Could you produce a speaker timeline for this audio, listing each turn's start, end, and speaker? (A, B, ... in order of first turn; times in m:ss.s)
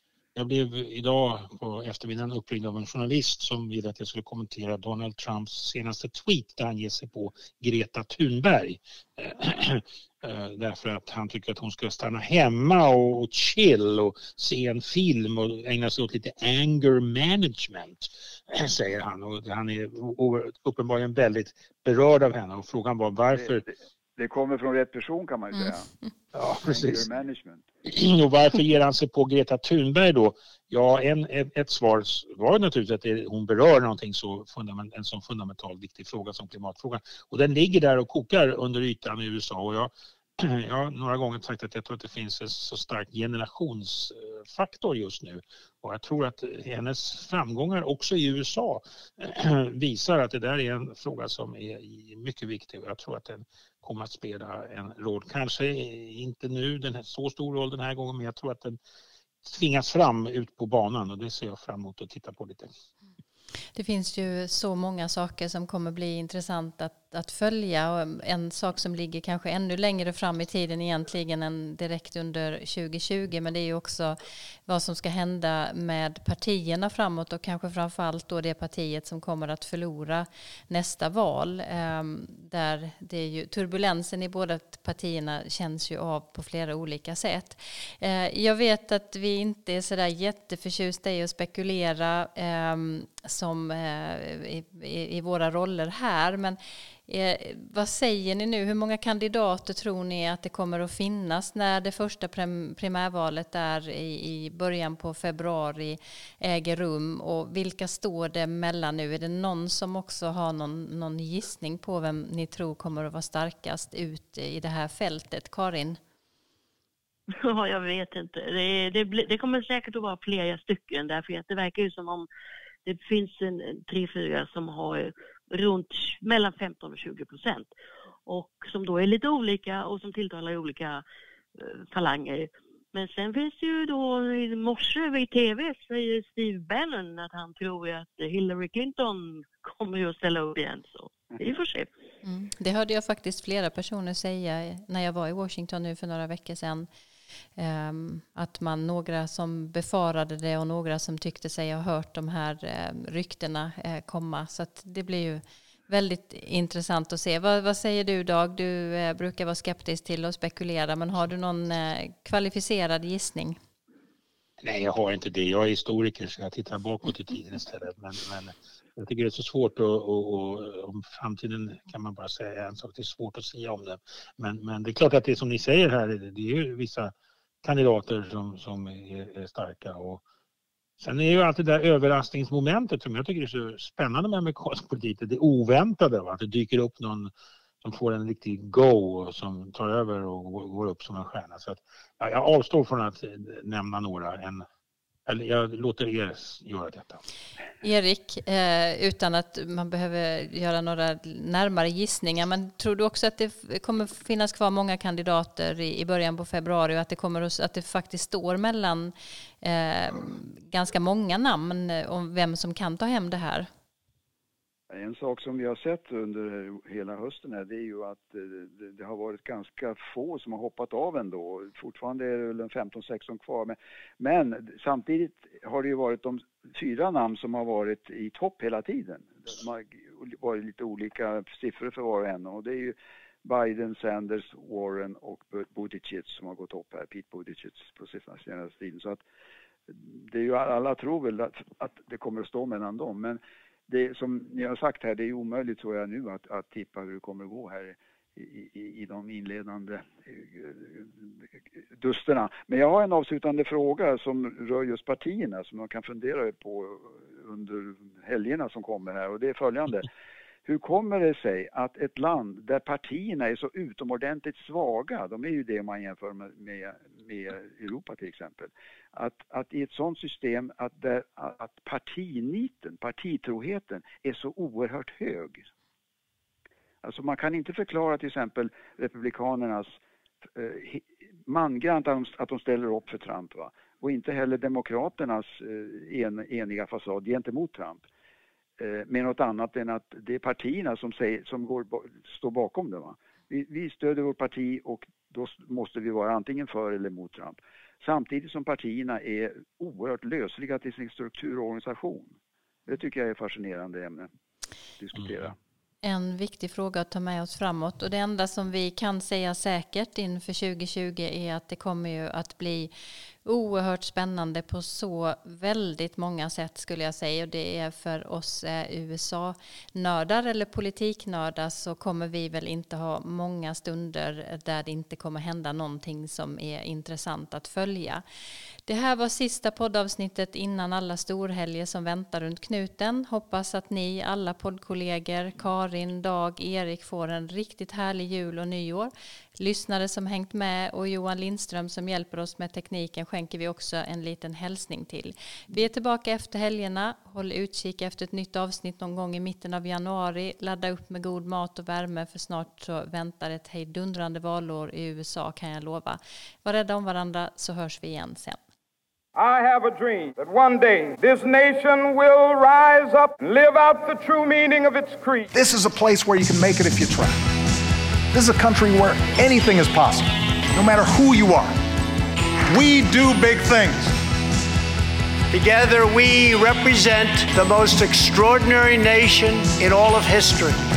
0:00.3-0:23.6 A
0:23.3-0:25.9 B
0:26.3-0:27.1 A
0:26.6-0:27.6 B
0:27.8-0:58.8 A
0:59.4-1:02.7 A
1:03.7-1:56.0 C
1:57.3-2:02.3 D
2:02.8-2:07.7 D
2:08.3-2:11.0 D
2:11.6-2:21.9 D
2:22.2-2:26.9 C
2:27.6-2:43.6 C
2:44.6-3:00.2 A
3:01.0-3:07.3 A
3:07.8-3:14.6 A
3:15.3-3:17.2 A
3:17.8-3:33.7 C
3:34.9-3:59.2 B
3:59.9-4:11.2 B
4:12.0-4:20.1 B
4:20.6-4:35.7 B
4:37.0-4:39.9 B
4:40.6-4:48.0 B
4:48.8-5:02.3 B
5:02.9-5:04.3 B
5:05.0-5:05.6 B
5:06.0-5:12.9 C
5:13.4-5:28.2 C
5:28.9-5:58.6 C
5:59.3-6:05.5 E
6:05.5-6:07.7 F
6:08.3-6:11.8 F
6:12.7-6:14.1 F
6:15.5-6:20.8 G